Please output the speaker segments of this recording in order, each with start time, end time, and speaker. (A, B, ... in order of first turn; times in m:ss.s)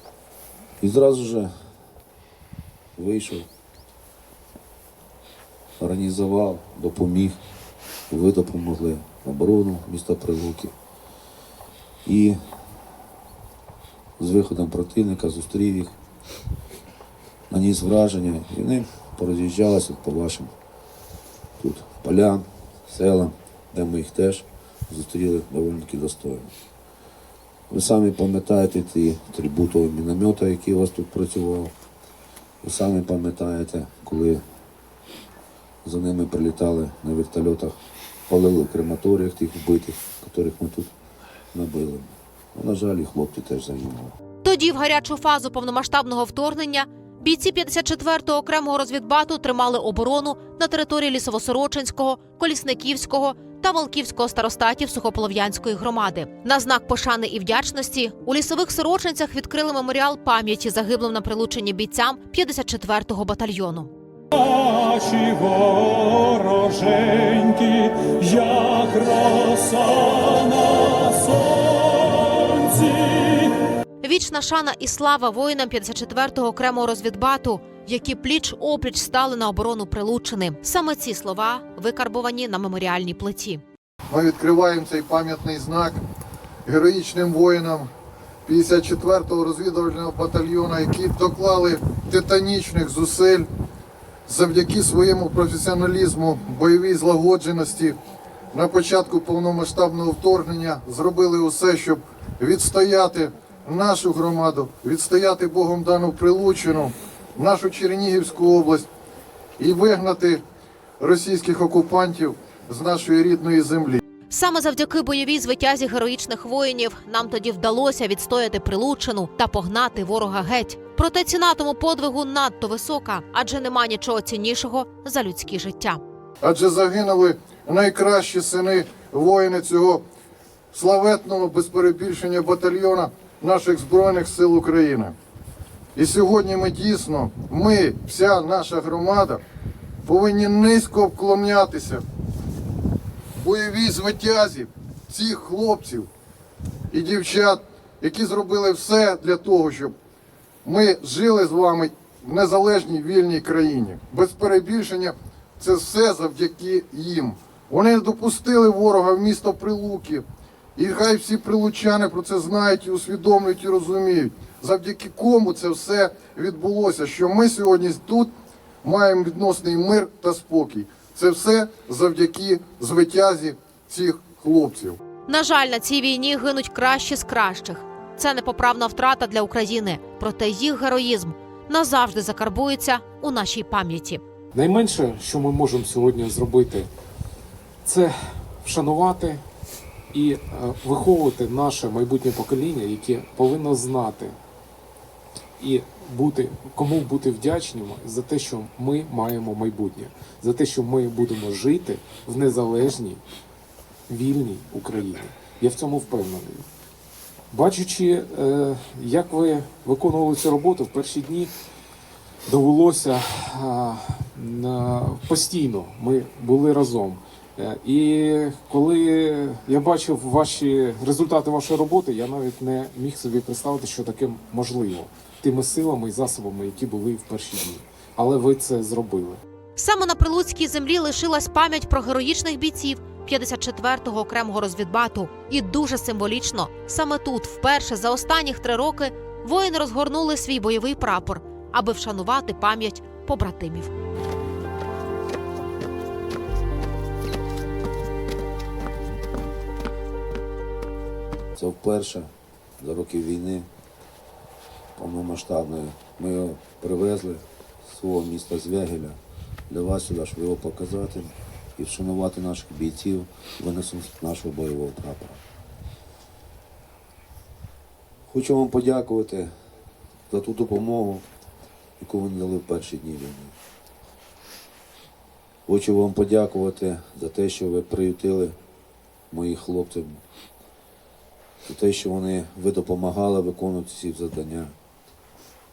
0:00.8-0:01.5 A
0:03.0-0:03.5 A
0:05.8-0:07.4 A
0:08.1-0:10.7 A
0:12.0-0:12.4 A
0:14.2-0:15.9 A
0:17.5-0:20.5 A
0:21.6-0:26.5 A
0:27.7-0:31.7 A
0:32.6-0:34.4 A
0:35.8-0:37.7 A
0:38.3-0:40.9 A
0:41.5-0:44.1 A
0:44.4-1:03.9 B
1:04.5-1:13.4 C
1:14.0-1:23.6 B
1:24.1-1:26.0 D
1:26.6-1:27.9 D
1:28.4-1:33.5 D
1:34.2-1:38.0 D
1:38.5-1:48.9 D
1:49.6-1:50.4 D
1:51.0-1:54.0 D
1:54.3-2:06.0 B
2:06.4-2:10.0 D
2:10.7-2:15.1 D
2:15.9-2:19.4 D
2:20.0-2:22.0 D
2:23.4-2:26.1 D
2:26.9-2:29.9 D
2:30.6-2:40.2 D
2:40.8-2:48.3 D
2:48.8-2:55.0 D
2:55.3-3:04.2 B
3:04.5-3:06.9 E
3:07.8-3:09.4 E
3:10.1-3:14.4 E
3:15.6-3:23.2 E
3:24.1-3:26.7 E
3:27.5-3:31.5 E
3:32.4-3:49.4 E
3:49.8-4:03.9 B
4:11.6-4:13.7 A
4:14.9-4:19.2 A
4:19.7-4:25.4 A
4:28.3-4:29.5 A
4:30.3-4:31.2 A
4:32.0-4:33.5 A
4:35.7-4:38.6 A
4:39.3-4:40.2 A
4:41.6-4:44.7 A